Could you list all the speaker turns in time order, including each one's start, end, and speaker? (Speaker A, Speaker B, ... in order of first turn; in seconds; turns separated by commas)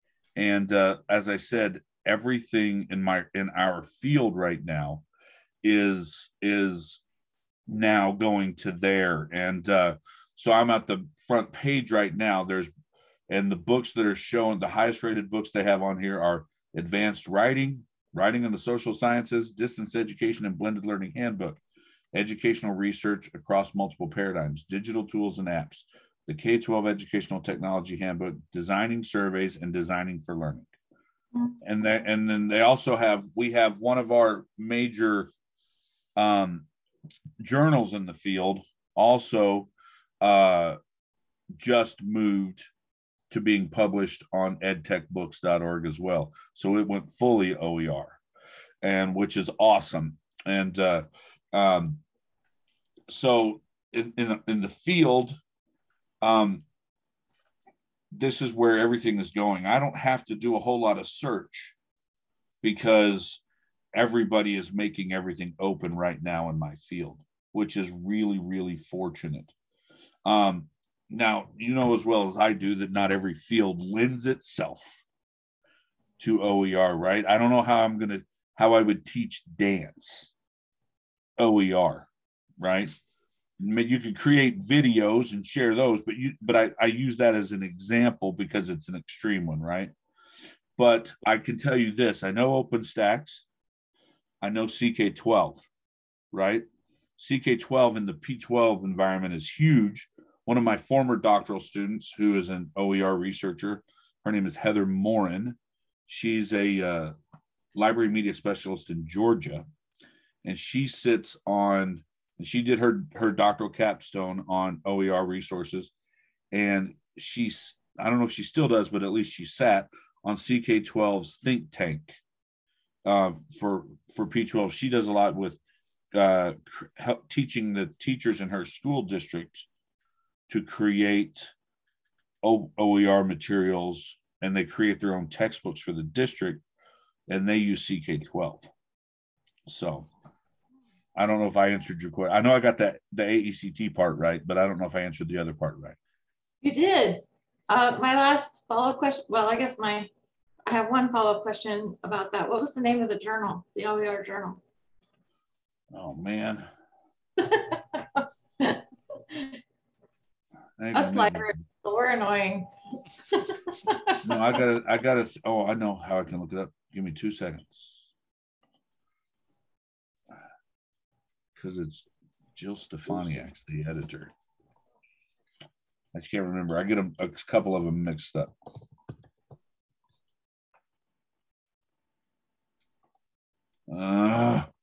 Speaker A: 0.4-5.0, Speaker A: 5.6-7.0, Speaker A: 7.7-12.7, Speaker A: 13.3-21.6, Speaker A: 22.1-30.7, Speaker B: 31.3-31.6, Speaker A: 31.6-35.3, Speaker A: 36.2-36.7, Speaker A: 37.4-39.7, Speaker A: 40.2-40.8, Speaker A: 41.5-42.7, Speaker A: 43.3-48.2, Speaker A: 48.8-52.0, Speaker A: 53.1-55.4, Speaker A: 56.2-56.6, Speaker A: 58.1-61.8, Speaker A: 62.6-63.4, Speaker A: 64.0-69.5, Speaker A: 70.2-75.0, Speaker A: 76.2-80.3, Speaker A: 81.4-83.0, Speaker A: 83.6-89.9, Speaker A: 90.8-93.5, Speaker A: 94.4-95.7, Speaker A: 96.3-96.7, Speaker A: 97.2-107.1, Speaker A: 107.8-109.7, Speaker A: 110.4-115.9, Speaker A: 116.5-122.2, Speaker A: 123.0-125.6, Speaker A: 126.1-129.7, Speaker A: 130.5-131.5, Speaker A: 132.4-136.6, Speaker A: 137.3-138.7, Speaker A: 139.7-140.1, Speaker A: 141.2-146.0, Speaker B: 146.6-150.1, Speaker B: 150.7-154.6, Speaker A: 155.9-156.7, Speaker B: 157.4-159.6, Speaker A: 160.8-161.6, Speaker B: 160.9-162.7, Speaker B: 163.2-164.4, Speaker A: 164.2-168.0, Speaker A: 171.6-174.3, Speaker A: 176.1-178.5, Speaker A: 183.9-184.7